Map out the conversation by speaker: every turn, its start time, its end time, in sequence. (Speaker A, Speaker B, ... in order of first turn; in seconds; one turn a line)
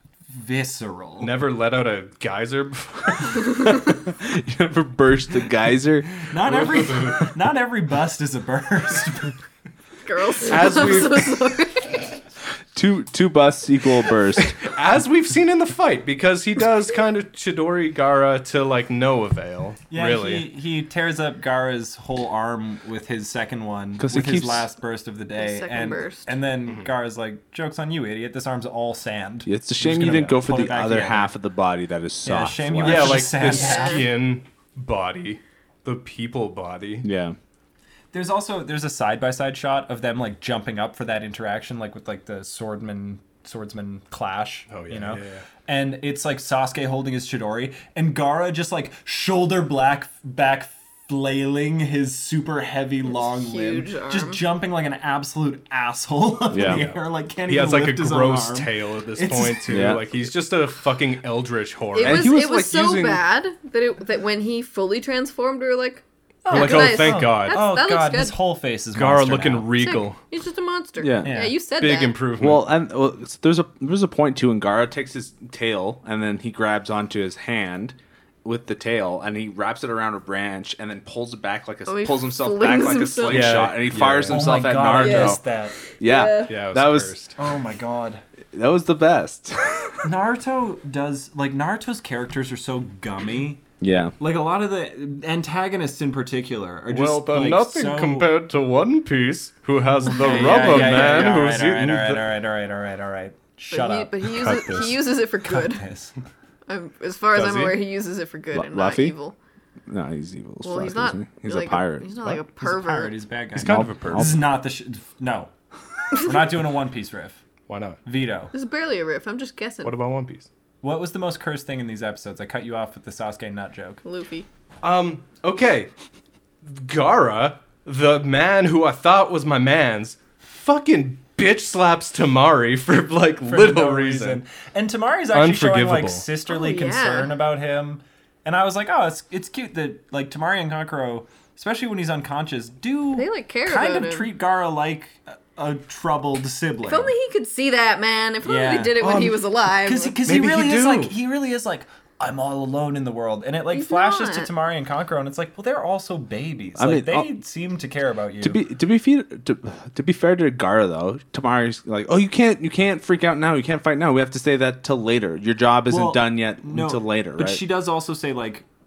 Speaker A: 0.3-1.3
Speaker B: 1.2-3.7
Speaker C: 3.6-6.3
Speaker A: 6.3-9.4
Speaker B: 6.5-7.3
Speaker D: 10.0-12.1
Speaker B: 10.4-11.5
Speaker C: 12.7-14.6
Speaker B: 14.4-20.5
Speaker A: 19.9-31.3
Speaker C: 24.0-24.7
Speaker D: 25.4-26.4
Speaker C: 29.4-33.4
Speaker A: 32.2-34.1
Speaker B: 32.8-37.0
Speaker D: 33.4-34.0
Speaker C: 37.0-37.4
Speaker A: 38.1-60.0
Speaker B: 44.7-45.5
Speaker D: 53.1-54.4
Speaker C: 56.5-56.9
Speaker B: 56.6-62.5
Speaker C: 59.7-60.0
Speaker D: 61.9-68.4
Speaker C: 62.0-63.2
Speaker A: 66.4-69.7
Speaker B: 66.5-67.7
Speaker B: 68.9-70.2
Speaker D: 69.8-72.2
Speaker C: 71.0-71.3
Speaker A: 71.2-71.6
Speaker B: 71.7-72.7
Speaker C: 72.4-85.4
Speaker D: 81.9-83.6
Speaker B: 83.2-84.6
Speaker A: 84.3-85.8
Speaker D: 85.0-86.5
Speaker C: 86.0-87.2
Speaker B: 86.5-87.3
Speaker A: 87.4-88.2
Speaker C: 88.5-90.0
Speaker A: 90.0-93.6
Speaker C: 93.8-94.2
Speaker A: 94.2-98.3
Speaker B: 96.9-102.2
Speaker A: 100.0-106.1
Speaker D: 103.7-105.8
Speaker B: 104.4-104.9
Speaker D: 106.7-109.3
Speaker B: 107.3-107.8
Speaker C: 108.5-109.1
Speaker C: 109.9-112.4
Speaker D: 110.6-113.2
Speaker A: 112.6-115.5
Speaker B: 113.5-114.4
Speaker C: 113.5-114.4
Speaker A: 116.1-117.4
Speaker B: 117.7-118.0
Speaker A: 118.0-118.5
Speaker D: 118.5-119.9
Speaker B: 119.8-120.5
Speaker A: 120.8-124.0
Speaker D: 124.0-124.5
Speaker B: 124.8-125.9
Speaker B: 126.6-134.4
Speaker A: 133.4-147.1
Speaker B: 135.3-136.2
Speaker D: 136.4-137.3
Speaker D: 143.2-144.3
Speaker D: 146.8-150.2
Speaker A: 148.4-158.6
Speaker B: 149.0-149.3
Speaker B: 150.2-151.2
Speaker D: 153.7-154.5
Speaker C: 156.8-157.3
Speaker C: 158.4-167.6
Speaker A: 165.9-168.6